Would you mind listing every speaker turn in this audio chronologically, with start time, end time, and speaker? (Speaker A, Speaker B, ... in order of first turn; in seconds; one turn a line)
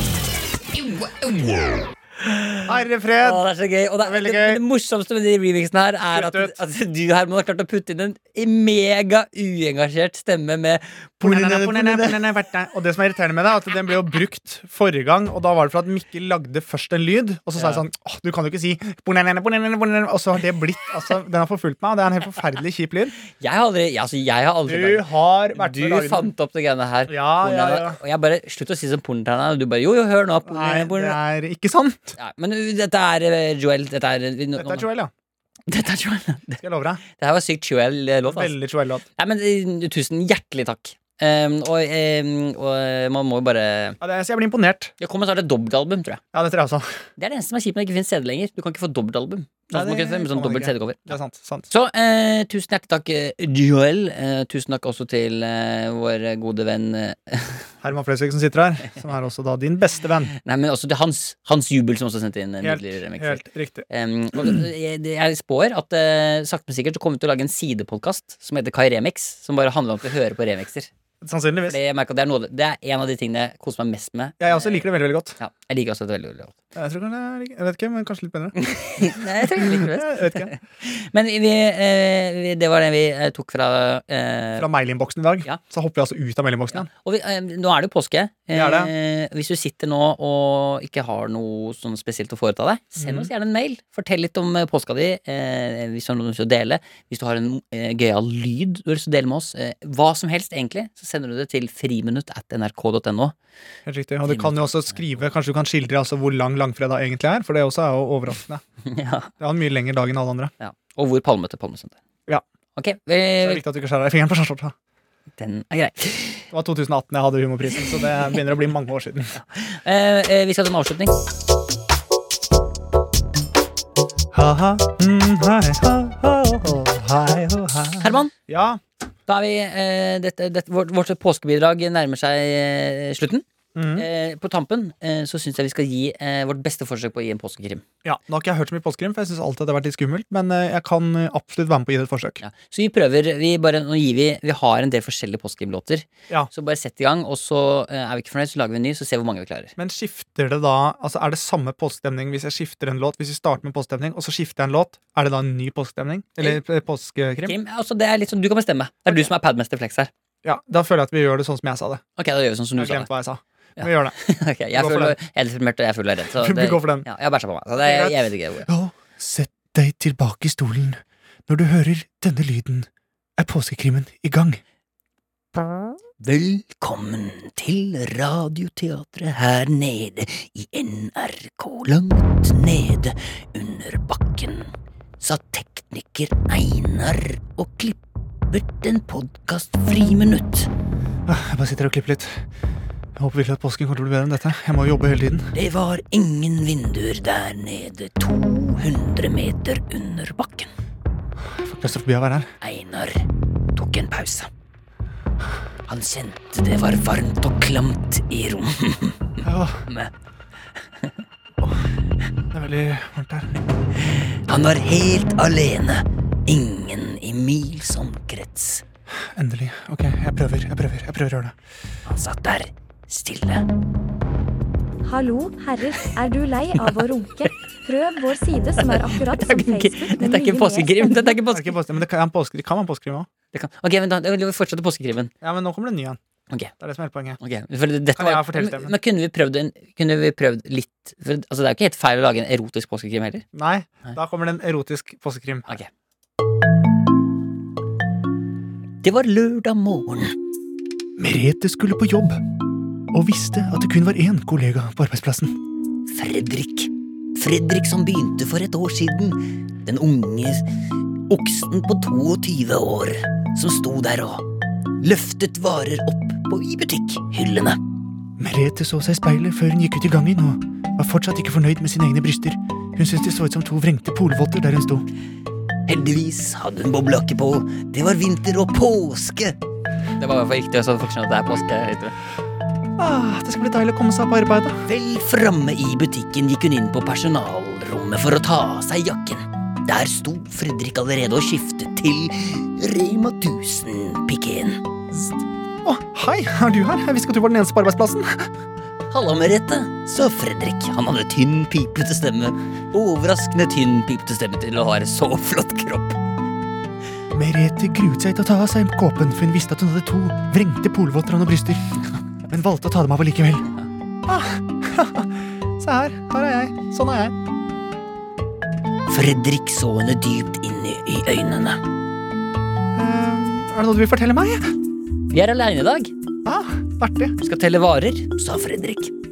Speaker A: 0.7-2.7
Speaker B: 2.6-3.5
Speaker A: 3.2-12.2
Speaker B: 4.0-4.6
Speaker B: 6.1-6.5
Speaker B: 11.2-23.1
Speaker A: 17.6-17.8
Speaker A: 23.4-31.2
Speaker B: 24.6-26.3
Speaker B: 27.1-28.0
Speaker B: 30.4-32.1
Speaker A: 32.2-34.9
Speaker B: 34.6-35.1
Speaker A: 35.7-38.5
Speaker B: 36.6-37.0
Speaker B: 38.2-39.0
Speaker A: 39.2-44.0
Speaker B: 44.0-44.9
Speaker A: 45.0-46.2
Speaker B: 46.3-46.9
Speaker A: 47.2-51.2
Speaker B: 49.7-51.7
Speaker A: 51.7-57.7
Speaker B: 57.8-60.3
Speaker A: 60.3-70.9
Speaker B: 62.6-63.9
Speaker B: 71.2-71.8
Speaker A: 71.7-74.8
Speaker B: 74.4-75.4
Speaker A: 75.4-76.5
Speaker B: 76.7-80.5
Speaker A: 78.5-84.7
Speaker B: 84.6-86.9
Speaker A: 86.7-103.3
Speaker B: 88.5-88.9
Speaker B: 93.0-93.3
Speaker B: 103.8-108.6
Speaker A: 104.2-105.1
Speaker A: 108.8-109.3
Speaker B: 109.4-110.5
Speaker A: 110.6-112.0
Speaker A: 112.8-113.6
Speaker B: 113.4-114.7
Speaker A: 115.4-116.4
Speaker B: 116.5-119.3
Speaker A: 119.5-121.1
Speaker B: 124.3-128.8
Speaker A: 128.0-128.3
Speaker A: 129.3-137.8
Speaker B: 133.7-134.1
Speaker B: 138.0-142.4
Speaker A: 142.4-149.7
Speaker B: 149.8-157.6
Speaker A: 157.4-160.1
Speaker B: 160.4-162.0
Speaker A: 162.2-163.1
Speaker B: 162.8-164.2
Speaker A: 163.8-168.7
Speaker B: 164.7-165.2
Speaker B: 166.3-167.1
Speaker B: 167.8-174.6
Speaker A: 176.2-188.0
Speaker A: 188.5-190.7
Speaker B: 191.3-192.4
Speaker B: 193.2-195.5
Speaker A: 195.5-200.7
Speaker B: 201.4-202.5
Speaker A: 202.6-204.5
Speaker A: 205.9-210.1
Speaker B: 209.4-209.8
Speaker B: 212.5-213.6
Speaker A: 214.1-218.8
Speaker B: 219.2-221.5
Speaker A: 222.1-223.6
Speaker C: 225.0-231.4
Speaker A: 228.8-231.8
Speaker B: 231.5-233.3
Speaker A: 233.5-235.3
Speaker B: 235.4-236.2
Speaker B: 236.8-237.4
Speaker A: 237.4-243.4
Speaker B: 238.2-238.9
Speaker B: 243.5-245.8
Speaker A: 249.0-250.3
Speaker B: 251.2-252.4
Speaker B: 253.1-255.6
Speaker A: 256.1-260.6
Speaker A: 261.3-264.4
Speaker A: 265.0-267.8
Speaker B: 268.4-275.1
Speaker A: 275.9-279.6
Speaker A: 280.2-282.1
Speaker B: 283.0-284.8
Speaker A: 284.9-294.8
Speaker B: 295.1-298.5
Speaker A: 299.1-306.2
Speaker B: 307.3-313.7
Speaker B: 314.2-317.3
Speaker A: 319.1-321.8
Speaker B: 322.9-324.7
Speaker A: 325.3-326.1
Speaker B: 326.4-327.3
Speaker A: 327.4-329.1